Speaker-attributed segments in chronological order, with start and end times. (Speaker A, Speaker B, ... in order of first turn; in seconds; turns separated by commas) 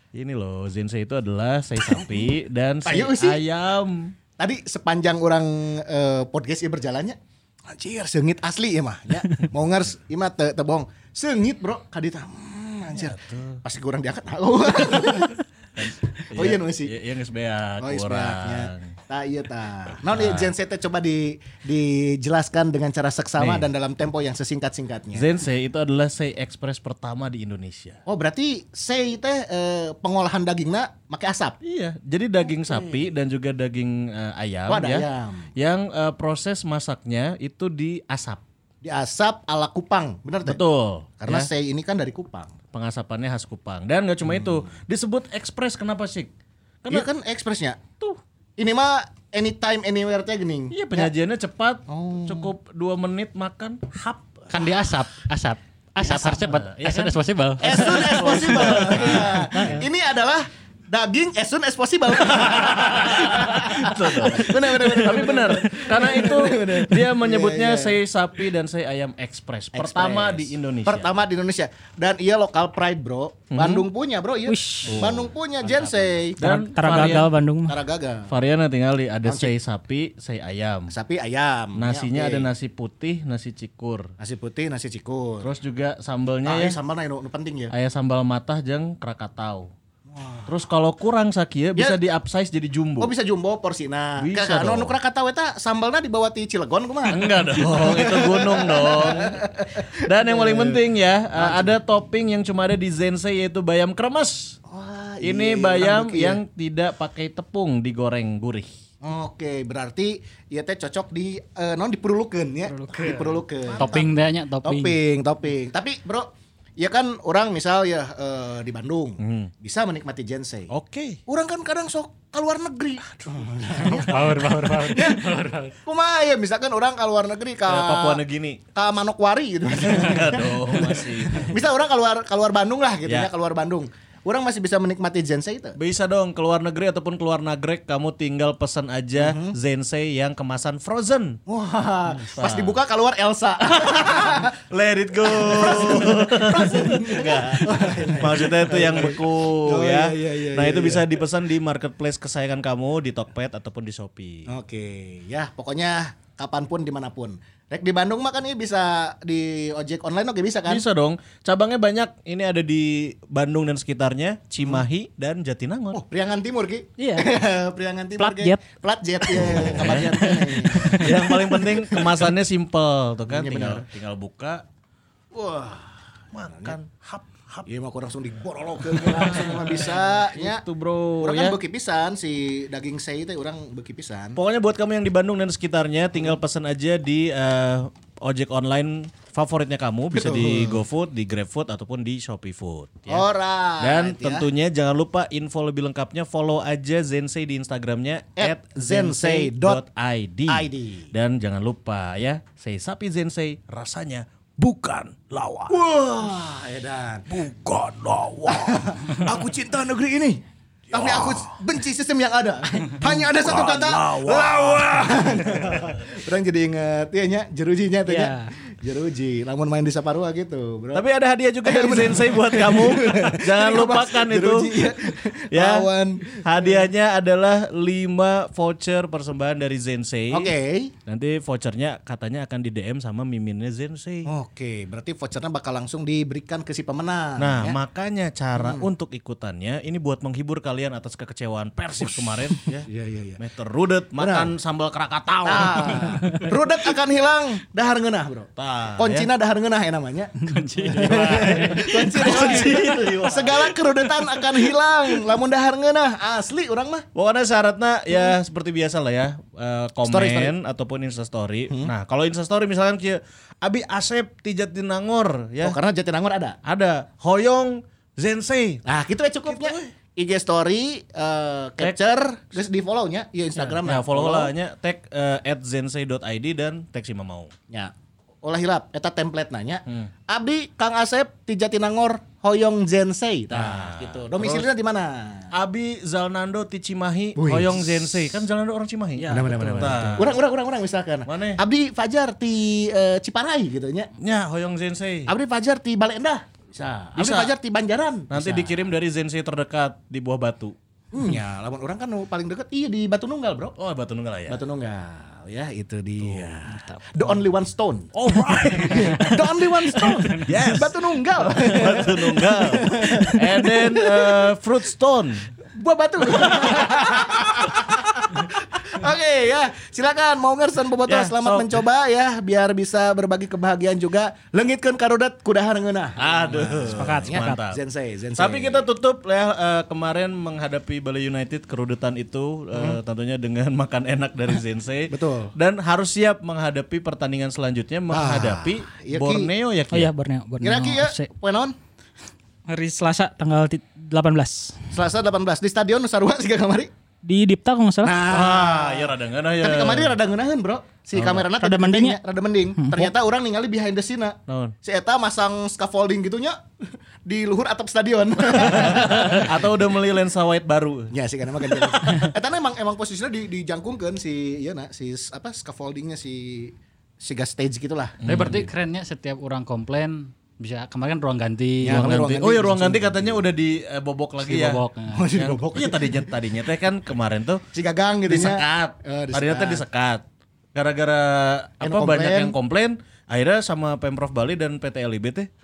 Speaker A: 0.1-4.1, Speaker B: 1.8-2.3, Speaker B: 2.9-3.4, Speaker B: 4.4-16.9, Speaker A: 12.9-13.6, Speaker A: 15.0-18.9, Speaker B: 17.8-25.3, Speaker A: 20.1-20.5, Speaker A: 23.4-23.7, Speaker A: 25.1-28.0, Speaker B: 28.1-31.6, Speaker A: 31.6-35.0, Speaker B: 34.7-35.5, Speaker A: 35.6-38.4, Speaker B: 38.8-40.6, Speaker A: 40.5-41.5, Speaker B: 41.2-42.5, Speaker A: 42.7-46.3, Speaker B: 46.9-47.9, Speaker B: 48.6-51.1, Speaker A: 50.7-54.8, Speaker B: 51.9-52.5, Speaker C: 54.5-58.2, Speaker A: 56.1-59.8, Speaker B: 57.6-68.0, Speaker A: 62.3-71.1, Speaker B: 69.7-78.3, Speaker A: 73.5-73.9, Speaker D: 74.5-75.1, Speaker A: 74.8-75.3, Speaker C: 75.6-76.2, Speaker A: 76.4-77.3, Speaker D: 76.4-77.8, Speaker A: 78.3-80.9, Speaker B: 79.2-79.5, Speaker B: 80.9-82.5, Speaker A: 81.8-84.1, Speaker B: 84.2-85.5, Speaker A: 85.4-86.8, Speaker B: 86.5-87.7, Speaker A: 87.7-89.7, Speaker B: 90.1-90.5, Speaker A: 90.5-93.1, Speaker B: 93.0-100.8, Speaker A: 94.2-94.9, Speaker A: 97.1-99.4, Speaker A: 100.0-104.6, Speaker B: 101.4-101.8, Speaker B: 104.7-106.4, Speaker A: 105.2-108.7, Speaker B: 109.0-114.1, Speaker D: 112.7-113.3, Speaker C: 113.8-115.0, Speaker B: 114.6-120.7, Speaker A: 119.2-119.5, Speaker A: 120.7-121.2, Speaker B: 121.3-124.3, Speaker A: 123.1-124.5, Speaker C: 123.8-125.8, Speaker B: 124.9-125.2, Speaker B: 125.8-128.2, Speaker A: 127.7-128.6, Speaker B: 128.8-135.8, Speaker A: 129.8-131.5, Speaker A: 135.8-141.4, Speaker B: 139.2-139.6, Speaker B: 141.5-144.5, Speaker A: 142.1-142.8, Speaker A: 143.7-154.5, Speaker B: 145.2-151.1, Speaker B: 154.5-160.8, Speaker A: 160.7-166.0, Speaker B: 165.9-171.1, Speaker D: 167.0-167.3, Speaker D: 168.2-168.6, Speaker D: 169.2-172.0, Speaker A: 169.4-174.6, Speaker B: 173.3-173.9, Speaker B: 175.3-175.9, Speaker A: 176.3-177.7, Speaker B: 176.5-176.8, Speaker B: 177.7-180.6, Speaker A: 179.0-181.6, Speaker B: 181.2-184.4, Speaker A: 184.4-193.2, Speaker B: 190.1-190.8, Speaker B: 193.1-194.5, Speaker A: 193.8-205.8, Speaker B: 198.4-199.8, Speaker B: 200.5-201.1, Speaker B: 205.7-207.3, Speaker A: 207.3-209.4, Speaker B: 208.4-221.0, Speaker A: 210.9-211.6, Speaker A: 213.0-215.9, Speaker D: 218.1-218.5, Speaker A: 220.9-225.0, Speaker B: 221.6-226.8, Speaker A: 225.5-230.5, Speaker B: 230.3-230.9, Speaker A: 231.1-234.3, Speaker B: 234.3-237.8, Speaker A: 237.4-246.4, Speaker B: 238.6-238.9, Speaker B: 242.9-243.4, Speaker B: 244.2-244.5, Speaker B: 245.4-257.1, Speaker A: 248.6-249.3, Speaker C: 250.4-252.7, Speaker A: 250.9-253.8, Speaker A: 257.1-265.8, Speaker B: 260.0-260.5, Speaker B: 265.6-266.6, Speaker A: 266.6-268.8, Speaker B: 268.9-274.5, Speaker A: 269.5-269.9, Speaker A: 273.6-277.5, Speaker B: 277.7-285.5, Speaker A: 283.5-284.7, Speaker A: 285.5-290.4, Speaker B: 287.4-288.1, Speaker D: 289.2-290.2, Speaker B: 289.3-294.1, Speaker A: 291.3-291.6, Speaker A: 294.2-295.3, Speaker B: 295.3-298.7, Speaker A: 297.2-297.5, Speaker A: 298.3-300.7, Speaker B: 301.1-303.8, Speaker A: 303.8-304.6, Speaker B: 304.5-314.5, Speaker A: 306.2-306.6, Speaker A: 308.1-315.5, Speaker B: 315.7-328.9, Speaker A: 316.3-317.9, Speaker A: 321.1-321.7, Speaker A: 326.2-327.8, Speaker D: 326.9-327.6, Speaker A: 328.4-340.1, Speaker B: 332.7-333.0, Speaker B: 335.1-335.5, Speaker B: 338.1-339.5, Speaker D: 339.9-341.3, Speaker B: 340.6-341.8, Speaker D: 342.7-344.9, Speaker B: 344.9-346.9, Speaker D: 347.2-348.2, Speaker B: 348.0-356.6, Speaker A: 348.3-350.2, Speaker A: 351.1-351.5, Speaker D: 351.5-352.2, Speaker D: 352.8-353.1, Speaker A: 354.5-354.7, Speaker B: 357.2-359.7, Speaker A: 358.5-361.1, Speaker B: 361.1-368.2, Speaker A: 361.7-362.1, Speaker A: 368.2-368.7, Speaker C: 368.2-372.4, Speaker B: 371.8-373.4, Speaker A: 371.8-377.6, Speaker C: 374.4-375.3, Speaker B: 375.1-376.3, Speaker B: 377.7-379.8, Speaker A: 378.3-380.2, Speaker A: 380.8-385.5, Speaker B: 381.8-382.6